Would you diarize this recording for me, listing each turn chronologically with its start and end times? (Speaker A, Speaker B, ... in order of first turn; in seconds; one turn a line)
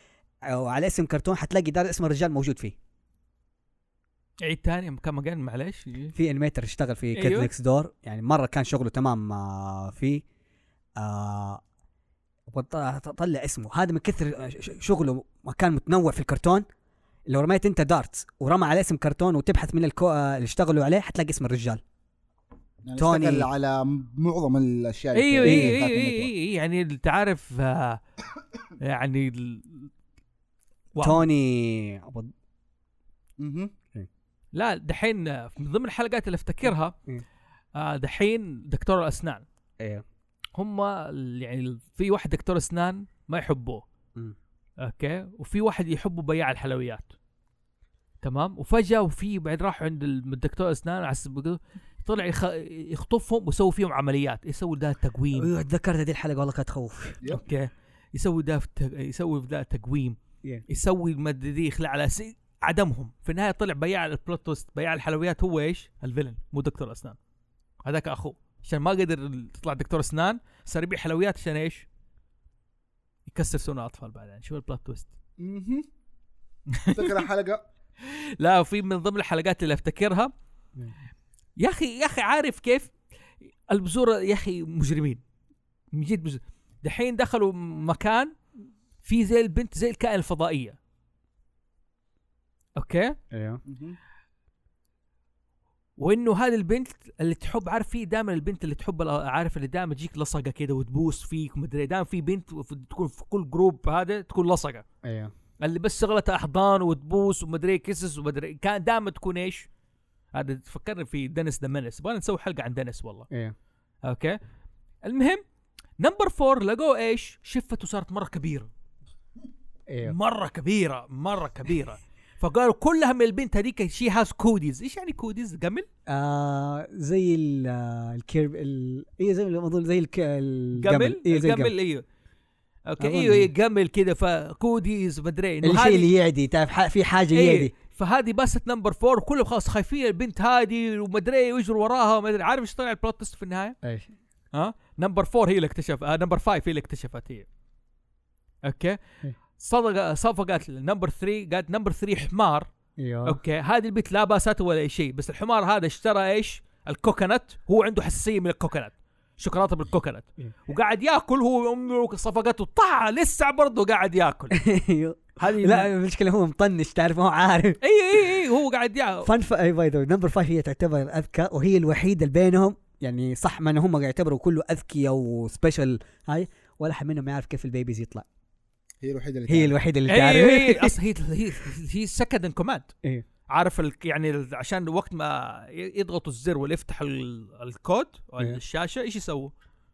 Speaker A: 0.5-2.8
Speaker B: 4.5-6.1
Speaker A: 6.2-10.2
Speaker B: 7.2-7.5
Speaker A: 11.0-11.6
Speaker A: 12.5-16.6
Speaker A: 17.3-21.8
Speaker C: 22.8-26.3
Speaker A: 23.0-23.5
Speaker B: 25.1-28.0
Speaker A: 25.4-25.8
Speaker B: 28.8-29.9
Speaker B: 30.9-31.3
Speaker A: 31.0-32.3
Speaker C: 33.4-33.7
Speaker B: 34.5-37.0
Speaker B: 37.8-39.4
Speaker B: 40.6-43.9
Speaker B: 44.8-47.1
Speaker B: 48.2-55.5
Speaker A: 55.4-57.2
Speaker B: 57.3-60.2
Speaker B: 60.7-67.2
Speaker B: 67.8-71.9
Speaker B: 73.3-75.1
Speaker C: 75.4-75.9
Speaker B: 76.7-77.2
Speaker C: 76.9-77.6
Speaker B: 78.0-80.3
Speaker B: 81.6-82.9
Speaker B: 83.7-85.2
Speaker B: 85.9-88.3
Speaker B: 89.0-90.8
Speaker B: 92.8-93.2
Speaker A: 93.3-93.6
Speaker C: 93.7-94.0
Speaker B: 96.0-104.8
Speaker A: 105.0-105.3
Speaker B: 105.6-109.7
Speaker B: 110.3-113.3
Speaker B: 114.0-114.4
Speaker B: 115.0-115.4
Speaker B: 116.0-118.7
Speaker A: 119.9-120.2
Speaker B: 120.0-125.9
Speaker A: 126.1-131.7
Speaker B: 130.8-132.1
Speaker B: 132.9-136.1
Speaker A: 133.0-133.5
Speaker A: 135.6-137.7
Speaker B: 137.3-143.8
Speaker A: 143.8-144.1
Speaker B: 144.5-147.5
Speaker B: 148.7-149.0
Speaker B: 149.6-152.7
Speaker A: 153.0-153.4
Speaker B: 153.3-164.6
Speaker A: 164.5-167.8
Speaker B: 165.4-165.9
Speaker B: 167.8-169.3
Speaker A: 169.2-178.3
Speaker C: 179.0-179.8
Speaker A: 179.5-180.9
Speaker B: 180.1-182.9
Speaker B: 183.5-189.5